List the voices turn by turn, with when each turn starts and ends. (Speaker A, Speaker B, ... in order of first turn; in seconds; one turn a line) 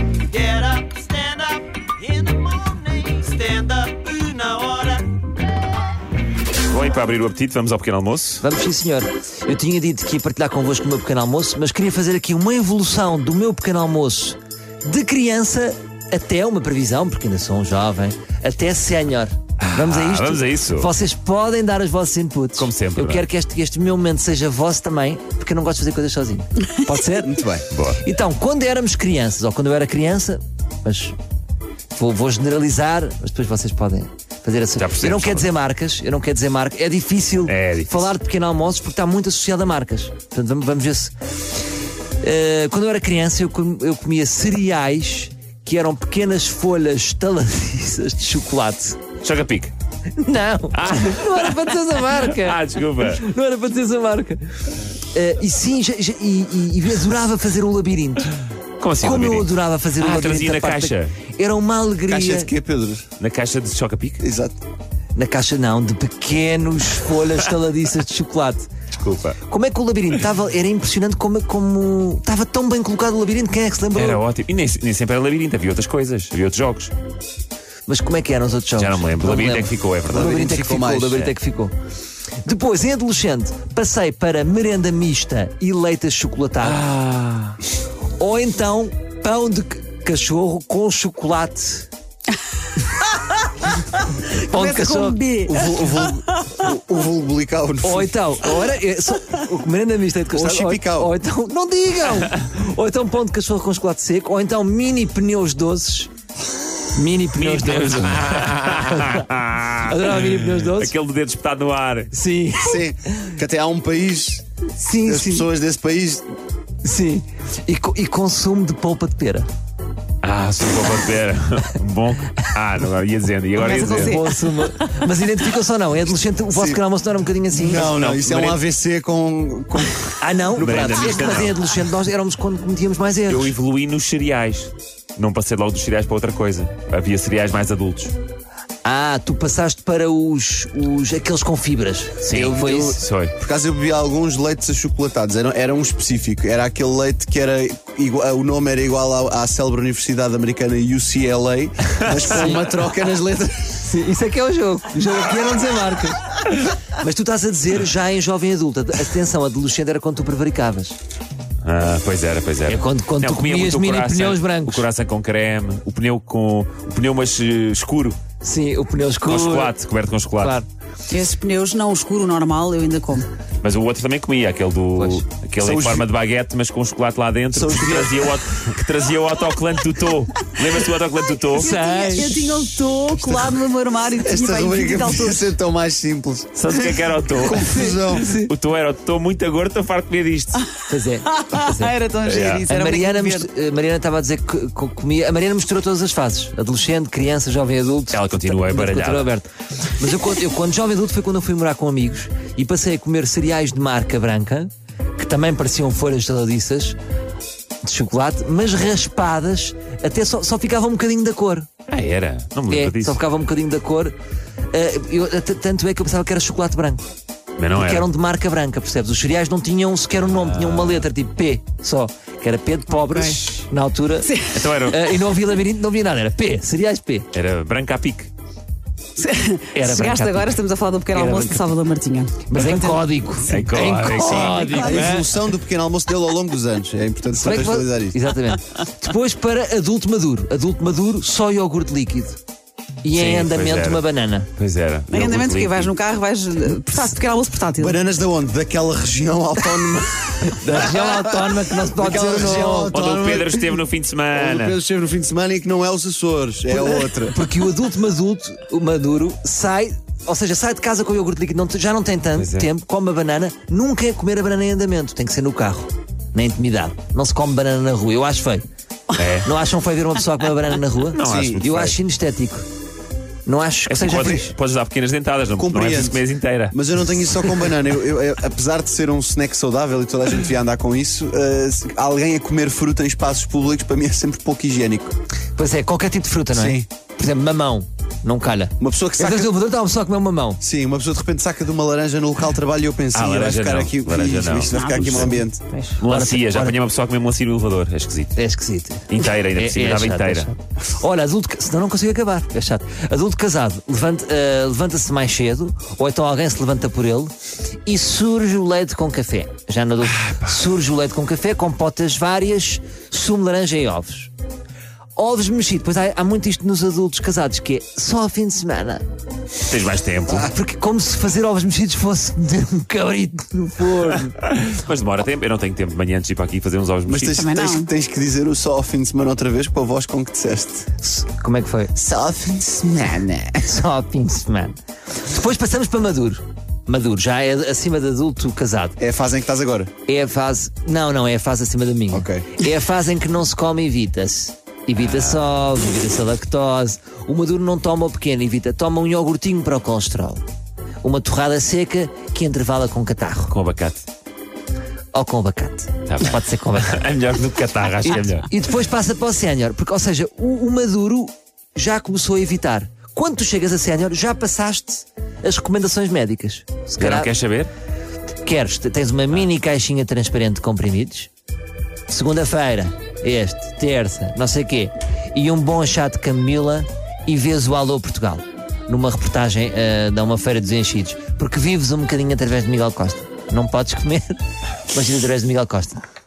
Speaker A: 0.3-5.2
Speaker B: 6.7-8.4
Speaker C: 8.4-27.4
Speaker B: 19.6-20.9
Speaker B: 22.6-23.2
Speaker D: 27.2-27.6
Speaker B: 27.7-28.0
Speaker C: 28.0-31.1
Speaker C: 31.9-41.1
Speaker B: 34.8-35.5
Speaker B: 37.5-38.1
Speaker C: 42.2-49.0
Speaker B: 49.2-49.7
Speaker C: 50.2-58.3
Speaker B: 50.7-53.2
Speaker B: 58.8-61.2
Speaker C: 59.0-62.5
Speaker D: 62.1-63.1
Speaker B: 63.2-64.2
Speaker D: 64.2-64.6
Speaker C: 65.1-68.7
Speaker B: 68.9-69.4
Speaker C: 69.5-74.2
Speaker B: 73.9-76.9
Speaker C: 77.9-81.7
Speaker B: 78.8-80.5
Speaker D: 80.1-81.2
Speaker C: 82.4-86.8
Speaker B: 86.6-87.6
Speaker C: 88.2-91.9
Speaker E: 92.9-93.5
Speaker E: 94.2-95.9
Speaker C: 94.3-95.2
Speaker D: 95.4-98.1
Speaker C: 97.8-106.1
Speaker D: 100.3-101.1
Speaker C: 106.9-109.2
Speaker B: 107.3-112.1
Speaker C: 109.8-110.9
Speaker C: 112.1-112.8
Speaker D: 112.6-114.4
Speaker C: 114.8-115.5
Speaker D: 115.0-116.2
Speaker C: 116.8-119.5
Speaker B: 120.2-124.2
Speaker E: 123.6-125.1
Speaker C: 123.9-127.9
Speaker D: 126.5-126.8
Speaker D: 127.5-131.5
Speaker B: 127.7-128.6
Speaker C: 130.2-133.5
Speaker B: 130.6-131.6
Speaker B: 133.3-138.1
Speaker C: 138.8-143.0
Speaker B: 142.2-143.3
Speaker D: 142.3-153.8
Speaker C: 152.1-152.7
Speaker C: 153.8-161.0
Speaker B: 161.6-168.2
Speaker C: 162.7-164.8
Speaker C: 168.4-169.7
Speaker B: 169.2-170.6
Speaker C: 170.4-170.7
Speaker E: 171.1-173.3
Speaker B: 173.6-181.7
Speaker C: 175.0-175.2
Speaker D: 175.6-176.1
Speaker D: 177.5-178.3
Speaker C: 181.5-182.4
Speaker E: 181.5-185.5
Speaker D: 183.2-183.6
Speaker D: 184.2-188.3
Speaker B: 186.6-190.7
Speaker C: 187.5-188.5
Speaker E: 190.8-193.5
Speaker C: 190.9-192.0
Speaker B: 192.2-192.7
Speaker C: 192.7-207.0
Speaker B: 198.1-199.3
Speaker C: 207.8-211.7
Speaker B: 211.9-213.2
Speaker C: 212.7-214.1
Speaker C: 214.7-217.1
Speaker B: 217.6-218.1
Speaker C: 217.7-227.3
Speaker B: 220.2-221.1
Speaker E: 223.0-223.4
Speaker E: 224.2-224.6
Speaker B: 224.5-225.2
Speaker B: 227.3-228.3
Speaker E: 229.2-233.0
Speaker C: 229.7-230.6
Speaker C: 231.1-231.6
Speaker C: 232.5-235.2
Speaker B: 233.5-234.8
Speaker E: 233.8-235.2
Speaker D: 234.7-238.2
Speaker C: 237.3-242.4
Speaker C: 243.0-244.5
Speaker B: 243.1-244.0
Speaker B: 244.6-245.9
Speaker E: 245.1-248.0
Speaker D: 247.8-253.8
Speaker C: 250.4-253.0
Speaker B: 252.9-254.8
Speaker D: 254.3-257.4
Speaker C: 257.3-268.6
Speaker B: 262.4-262.7
Speaker B: 269.1-269.5
Speaker C: 269.4-272.6
Speaker B: 271.1-271.9
Speaker D: 271.2-271.6
Speaker C: 273.4-274.5
Speaker B: 273.9-276.8
Speaker D: 275.6-285.1
Speaker C: 285.6-290.6
Speaker D: 286.5-286.9
Speaker D: 288.8-289.5
Speaker D: 290.6-295.6
Speaker B: 293.1-295.4
Speaker E: 294.7-296.0
Speaker B: 296.0-298.4
Speaker C: 296.1-296.8
Speaker C: 298.4-307.3
Speaker B: 299.1-300.5
Speaker C: 307.9-314.3
Speaker C: 315.1-319.0
Speaker B: 319.7-320.5
Speaker C: 320.4-324.4
Speaker B: 324.4-327.4
Speaker D: 327.1-330.9
Speaker E: 327.3-327.9
Speaker C: 331.0-331.9
Speaker D: 331.9-333.7
Speaker C: 333.6-339.0
Speaker D: 339.0-339.9
Speaker C: 340.1-350.4
Speaker D: 342.1-342.5
Speaker B: 345.0-345.4
Speaker C: 351.0-353.5
Speaker B: 353.5-354.1
Speaker C: 355.1-357.0
Speaker B: 356.1-358.5
Speaker C: 358.0-367.3
Speaker B: 367.0-367.7
Speaker C: 368.4-371.3
Speaker C: 372.1-386.0